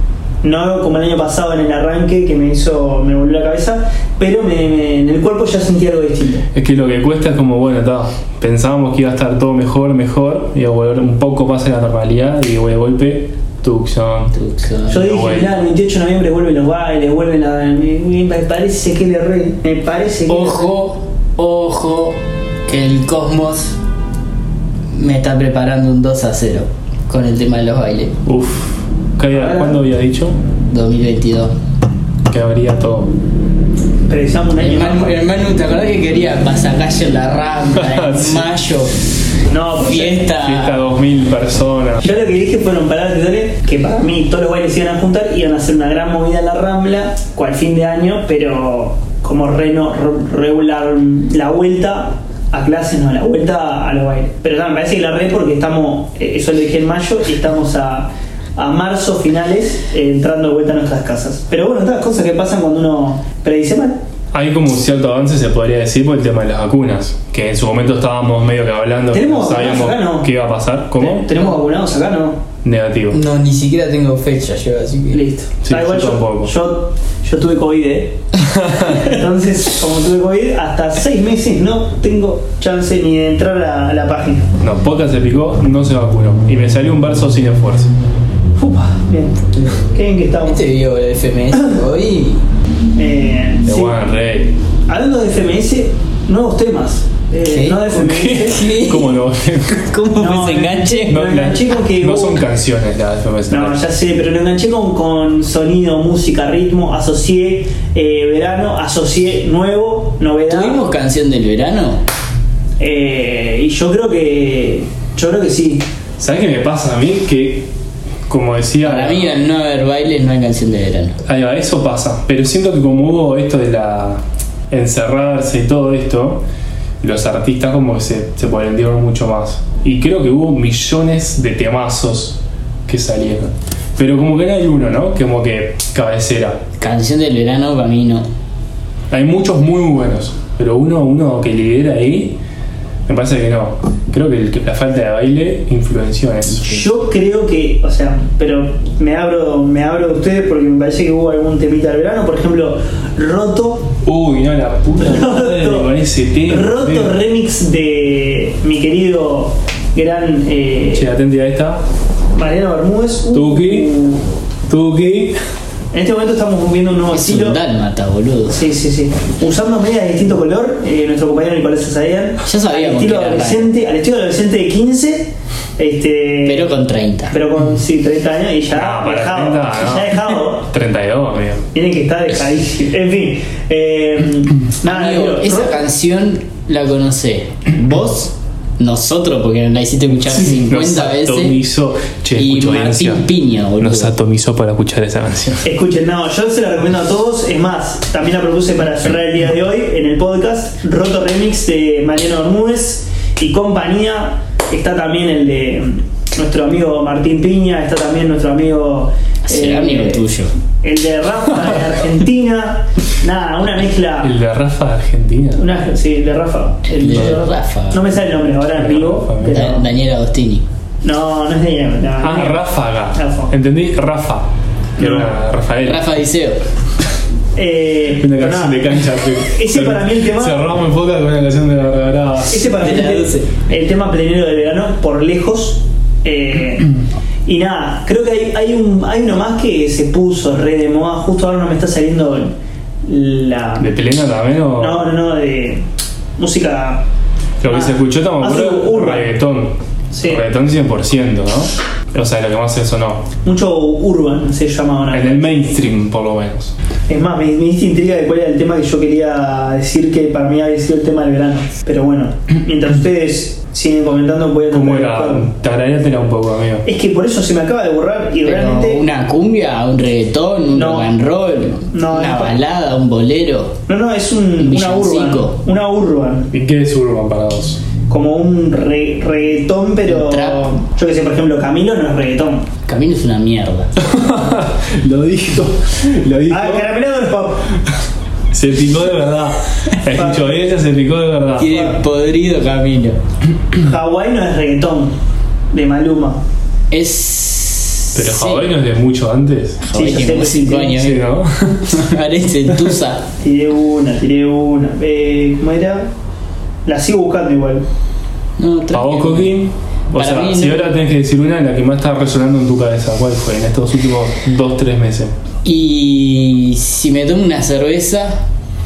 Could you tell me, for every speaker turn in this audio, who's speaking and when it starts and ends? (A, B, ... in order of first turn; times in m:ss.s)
0:00.4-0:06.4 A
0:06.5-0:14.3 B
0:14.3-0:15.1 C
0:14.9-0:20.7 A
0:14.9-0:15.6 B
0:20.3-0:23.8 C
0:24.9-0:28.2 C
0:28.3-0:30.4 B
0:29.3-0:29.8 A
0:30.7-0:31.6 C
0:32.3-0:33.1 B
0:34.1-0:35.2 A
0:34.6-0:39.0 C
0:37.8-0:38.5 B
0:39.5-0:40.3 A
0:39.8-0:40.8 C
0:40.4-0:42.0 B
0:42.0-1:04.0 A
1:04.3-1:11.3 B
1:09.1-1:10.3 A
1:11.0-1:12.4 A
1:12.6-1:13.2 B
1:13.1-1:15.2 C
1:15.1-1:18.2 A
1:15.6-1:16.5 B
1:18.4-1:19.0 B
1:18.8-1:24.5 A
1:24.6-1:27.9 B
1:28.6-1:30.6 A
1:30.5-1:32.4 C
1:33.0-1:34.0 A
1:33.6-1:34.5 B
1:34.9-1:38.7 A
1:37.4-1:39.2 C
1:37.9-1:39.9 B
1:39.8-1:41.2 C
1:40.2-1:42.4 A
1:41.1-1:43.8 B
1:43.5-1:50.8 A
1:50.5-1:52.0 C
1:52.8-1:55.8 A
1:56.2-1:57.7 B
1:58.3-1:59.4 B
1:58.8-2:01.2 C
2:01.2-2:06.4 B
2:07.0-2:16.6 B
2:16.8-2:18.3 C
2:19.1-2:22.4 B
2:23.1-2:26.8 B
2:26.6-2:33.9 A
2:34.0-2:37.2 B
2:35.0-2:35.9 A
2:36.5-2:41.0 A
2:40.9-2:41.8 B
2:42.4-2:44.2 A
2:43.3-2:43.9 B
2:44.7-2:45.4 B
2:45.9-2:47.6 A
2:47.1-2:48.6 C
2:48.5-2:56.7 A
2:52.4-2:53.7 C
2:56.4-2:57.4 C
2:57.3-3:00.7 A
2:58.7-3:01.6 B
3:01.7-3:05.8 A
3:04.8-3:11.6 C
3:10.3-3:13.3 B
3:12.4-3:14.1 C
3:13.8-3:15.6 B
3:15.6-3:30.2 A
3:29.5-3:30.5 C
3:30.8-3:34.3 A
3:34.2-3:35.6 B
3:35.6-3:39.8 A
3:36.9-3:38.1 C
3:38.7-3:39.7 B
3:39.4-3:40.6 C
3:41.0-3:43.5 A
3:42.2-3:44.5 B
3:45.0-3:45.3 A
3:45.0-3:46.1 B
3:45.8-3:46.6 C
3:47.6-3:50.7 A
3:48.2-3:52.9 B
3:52.5-3:56.9 A
3:52.8-3:53.5 C
3:57.5-4:03.9 A
4:03.8-4:05.1 B
4:04.8-4:05.8 A
4:06.4-4:07.0 A
4:07.6-4:13.3 B
4:07.7-4:09.3 A
4:10.1-4:10.4 A
4:13.4-4:15.5 A
4:15.1-4:16.7 B
4:17.1-4:25.5 A
4:24.7-4:26.8 B
4:26.8-4:29.0 A
4:28.4-4:33.8 C
4:30.7-4:31.1 A
4:31.9-4:32.6 A
4:33.9-4:36.5 A
4:34.6-4:35.6 C
4:36.5-4:37.8 B
4:38.1-4:42.7 A
4:40.1-4:40.7 C
4:42.9-4:43.9 C
4:44.0-4:46.9 B
4:46.5-4:47.7 A
4:48.5-4:51.9 B
4:50.1-4:50.7 A
4:51.6-4:53.2 C
4:53.8-4:55.2 A
4:55.7-4:56.4 A
4:56.9-4:58.7 C
4:58.2-4:59.8 B
4:59.8-5:01.2 C
4:59.9-5:01.0 A
5:00.9-5:02.0 B
5:01.9-5:03.3 C
5:03.4-5:06.1 A
5:06.9-5:07.8 A
5:08.6-5:09.6 C
5:08.9-5:15.3 B
5:10.1-5:11.0 C
5:15.6-5:18.4 C